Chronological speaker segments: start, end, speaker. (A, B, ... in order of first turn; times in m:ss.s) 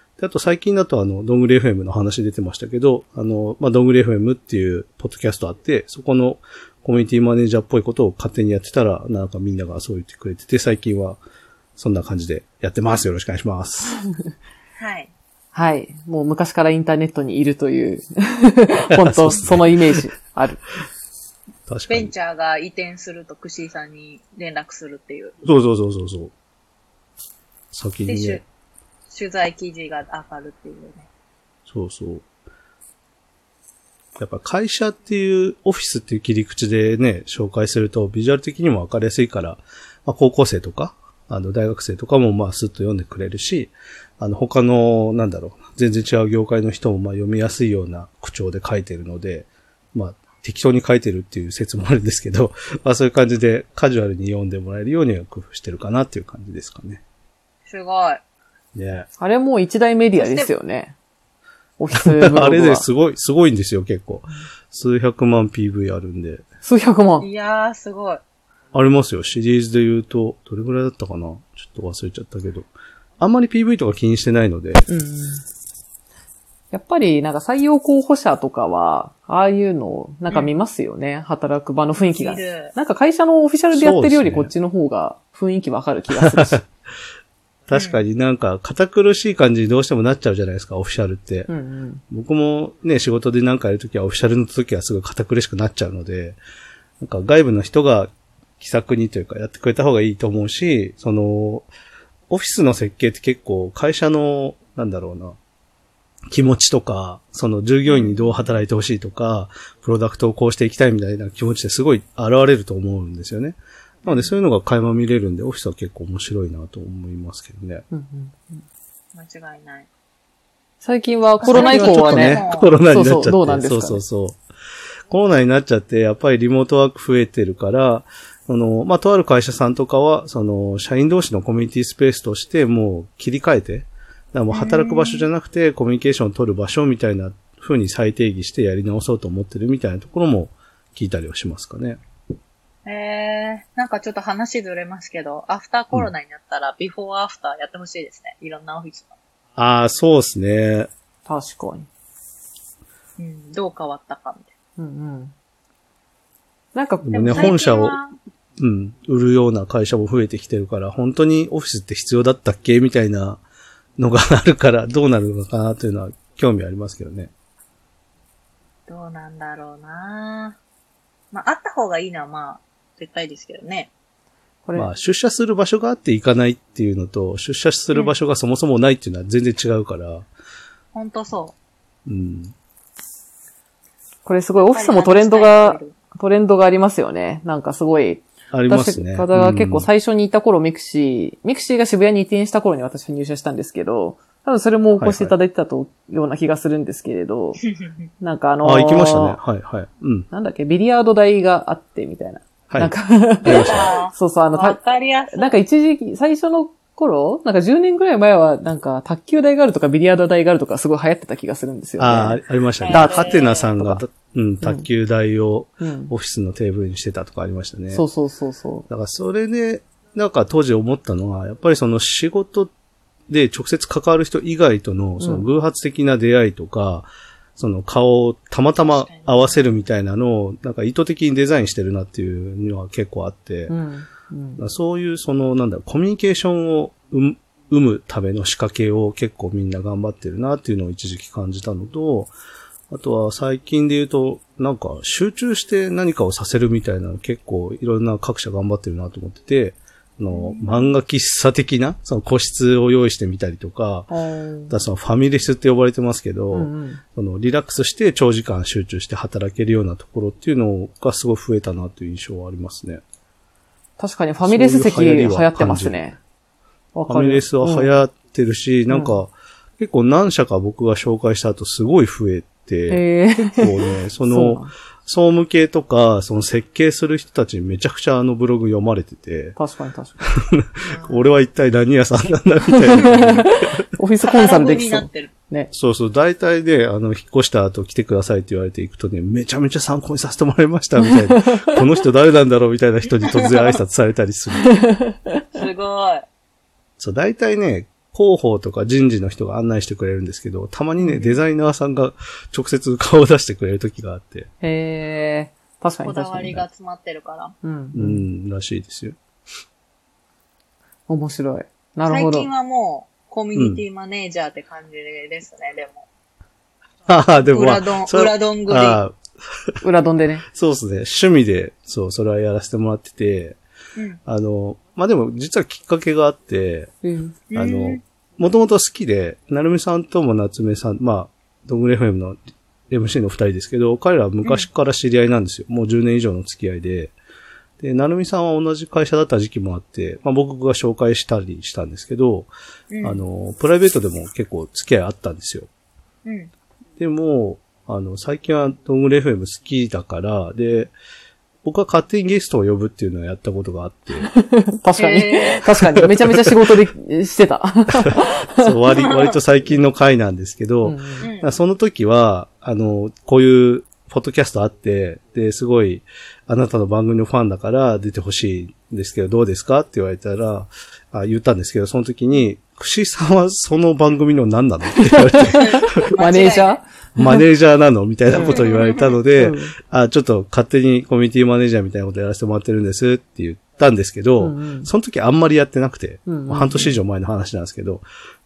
0:00.2-0:11.2 A
0:11.8-0:14.0 A
0:14.8-0:15.1 B
0:15.5-0:20.6 C
0:18.9-0:19.7 A
0:21.7-0:22.1 A
0:21.9-0:25.4 B
0:25.4-0:26.3 A
0:27.7-0:28.4 A
0:28.0-0:28.4 B
0:29.1-0:31.1 B
0:31.7-0:32.2 A
0:34.2-0:57.0 A
0:57.7-0:58.2 B
0:58.7-0:59.1 A
0:59.2-1:00.9 C
1:00.2-1:00.5 B
1:01.8-1:02.9 C
1:01.9-1:06.4 A
1:06.6-1:07.3 C
1:07.2-1:08.2 B
1:08.7-1:14.8 A
1:14.9-1:15.4 C
1:16.7-1:26.6 C
1:22.1-1:22.7 B
1:23.7-1:24.5 A
1:26.2-1:26.6 A
1:27.7-1:31.5 A
1:27.7-1:28.0 B
1:31.5-1:32.0 C
1:32.1-1:36.4 A
1:37.0-1:41.7 A
1:42.3-1:45.4 A
1:46.3-1:57.8 A
1:47.8-1:48.6 B
1:54.0-1:54.4 B
1:57.9-1:58.6 C
1:59.1-1:59.9 B
2:00.8-2:04.0 C
2:01.4-2:02.8 B
2:01.4-2:04.4 A
2:05.1-2:22.0 A
2:14.5-2:15.3 B
2:22.8-2:29.2 B
2:29.6-2:30.9 A
2:31.2-2:31.9 C
2:33.2-2:34.5 B
2:34.8-2:35.3 C
2:36.7-2:37.6 C
2:37.0-2:38.0 A
2:37.1-2:38.1 B
2:38.6-2:43.4 A
2:44.0-2:47.3 A
2:48.9-2:50.6 B
2:51.3-2:53.9 B
2:54.7-3:00.3 A
3:00.9-3:01.5 B
3:02.1-3:02.5 A
3:04.2-3:17.6 C
3:04.6-3:06.0 B
3:08.5-3:09.9 A
3:15.0-3:15.3 A
3:17.6-3:17.9 B
3:18.2-3:19.4 C
3:18.6-3:20.3 A
3:20.3-3:24.8 C
3:22.7-3:23.9 A
3:23.4-3:25.6 B
3:25.3-3:34.0 C
3:32.0-3:38.0 A
3:32.8-3:33.7 B
3:34.6-3:34.9 C
3:35.8-3:36.1 C
3:37.9-3:38.9 C
3:38.9-3:42.7 A
3:43.3-3:53.8 A
3:45.2-3:45.5 C
3:48.8-3:49.8 B
3:53.7-3:54.6 C
3:54.6-4:02.3 A
4:02.9-4:14.1 A
4:10.3-4:10.9 B
4:14.1-4:14.7 C
4:14.7-4:23.0 A
4:16.5-4:17.0 C
4:24.0-4:26.2 C
4:24.4-4:26.0 A
4:26.9-4:28.0 C
4:27.1-4:39.6 A
4:28.9-4:29.2 C
4:32.9-4:34.7 C
4:39.6-4:40.3 C
4:40.4-4:43.6 A
4:40.8-4:41.3 B
4:42.6-4:45.7 C
4:44.2-4:45.3 B
4:45.7-4:54.8 A
4:51.0-4:51.6 C
4:53.3-4:53.6 B
4:54.7-4:55.2 C
4:55.5-4:56.2 B
4:57.0-5:04.5 A
5:01.0-5:01.3 C
5:04.6-5:06.6 C
5:06.0-5:07.5 B
5:07.6-5:08.2 C
5:07.9-5:09.2 A
5:11.1-5:12.5 C
5:12.1-5:16.0 B
5:13.5-5:13.8 A
5:17.1-5:19.1 A
5:17.3-5:19.0 B
5:19.8-5:20.4 C
5:20.5-5:23.6 A
5:24.2-5:26.9 A
5:27.0-5:27.4 C
5:27.5-5:28.0 B
5:27.5-5:32.4 A
5:32.9-5:37.1 A
5:37.8-5:42.5 A
5:42.9-5:43.2 B
5:43.0-5:45.7 A
5:46.2-5:46.5 B
5:47.0-5:50.9 A
5:51.6-5:54.3 A
5:54.3-5:58.7 C
5:54.9-5:55.6 B
5:57.9-6:16.0 A
6:00.8-6:01.3 C
6:01.2-6:01.5 B
6:15.0-6:17.4 C
6:15.7-6:16.8 B
6:17.1-6:28.0 A
6:18.3-6:18.6 C
6:18.4-6:19.2 B
6:19.3-6:19.7 C
6:24.4-6:24.9 C
6:26.3-6:27.0 C